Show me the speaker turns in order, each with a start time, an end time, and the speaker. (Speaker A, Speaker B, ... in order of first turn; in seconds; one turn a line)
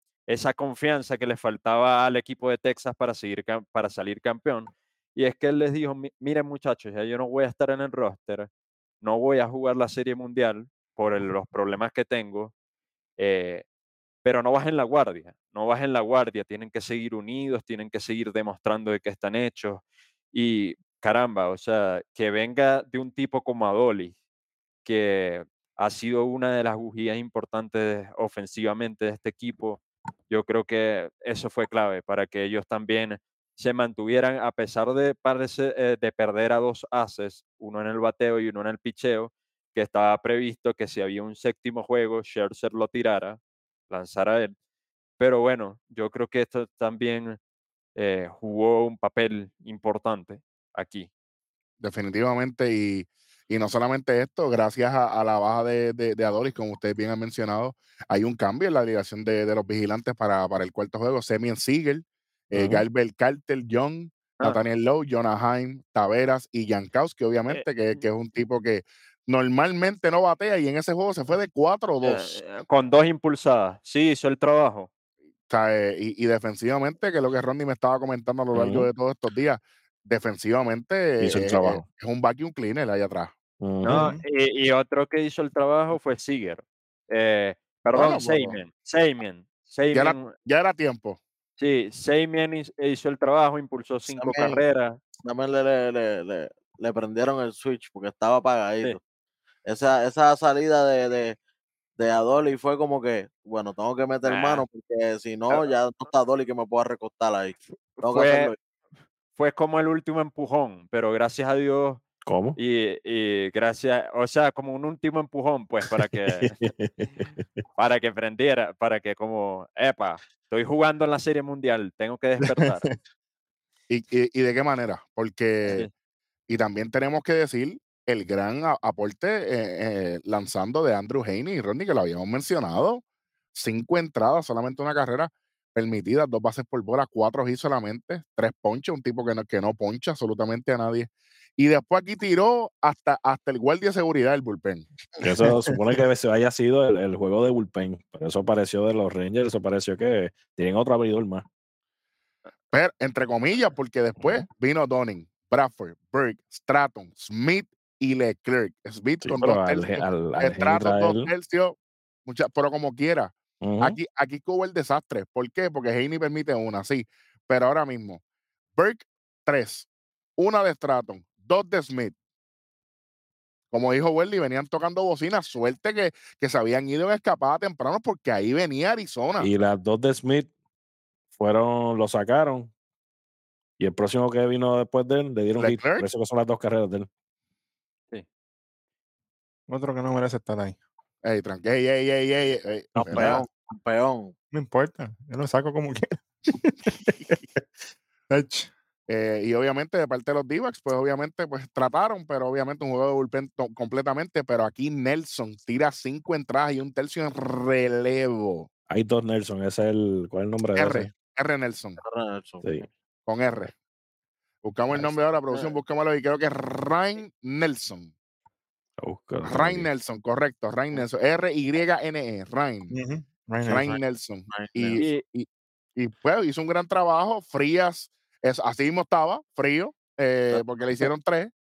Speaker A: 0.3-8.5
Speaker A: 9.0-12.5
Speaker A: 13.2-13.7
Speaker A: 14.2-24.1
Speaker A: 24.9-44.5
Speaker A: 45.2-47.4
Speaker A: 48.0-51.1
Speaker B: 51.8-72.4
Speaker C: 62.5-62.8
Speaker A: 67.5-68.0
Speaker A: 72.0-74.9
Speaker B: 75.5-83.3
Speaker C: 78.5-78.9
Speaker C: 81.2-81.8
Speaker C: 83.6-84.0
Speaker A: 83.8-90.3
Speaker D: 83.9-84.2
Speaker B: 87.9-88.6
Speaker B: 89.9-91.2
Speaker A: 91.6-95.0
Speaker E: 94.1-94.6
Speaker E: 95.2-99.0
Speaker E: 99.7-101.4
Speaker E: 102.0-108.6
Speaker A: 104.2-104.6
Speaker A: 108.0-108.5
Speaker A: 109.4-112.0
Speaker C: 112.3-112.6
Speaker A: 112.6-116.5
Speaker C: 116.3-117.2
Speaker A: 117.8-122.8
Speaker D: 122.4-123.0
Speaker B: 123.9-125.9
Speaker A: 125.7-125.9
Speaker B: 126.5-133.0
Speaker B: 133.5-144.9
Speaker C: 145.2-151.5
Speaker B: 152.7-168.2
Speaker C: 159.2-161.3
Speaker C: 163.6-164.0
Speaker B: 168.8-172.2
Speaker B: 173.7-179.5
Speaker C: 179.4-180.5
Speaker C: 181.3-182.7
Speaker C: 183.8-187.1
Speaker B: 185.6-186.1
Speaker D: 189.7-190.8
Speaker B: 191.2-193.4
Speaker D: 193.0-193.4
Speaker E: 193.0-194.3
Speaker D: 194.5-197.6
Speaker D: 198.3-198.7
Speaker B: 199.1-208.7
Speaker C: 208.9-211.1
Speaker B: 210.8-212.0
Speaker E: 212.0-212.7
Speaker C: 212.6-212.9
Speaker B: 213.3-213.7
Speaker B: 214.6-218.1
Speaker E: 214.9-215.8
Speaker C: 219.0-219.9
Speaker B: 219.4-222.9
Speaker D: 222.9-223.9
Speaker B: 223.6-231.5
Speaker E: 224.5-225.0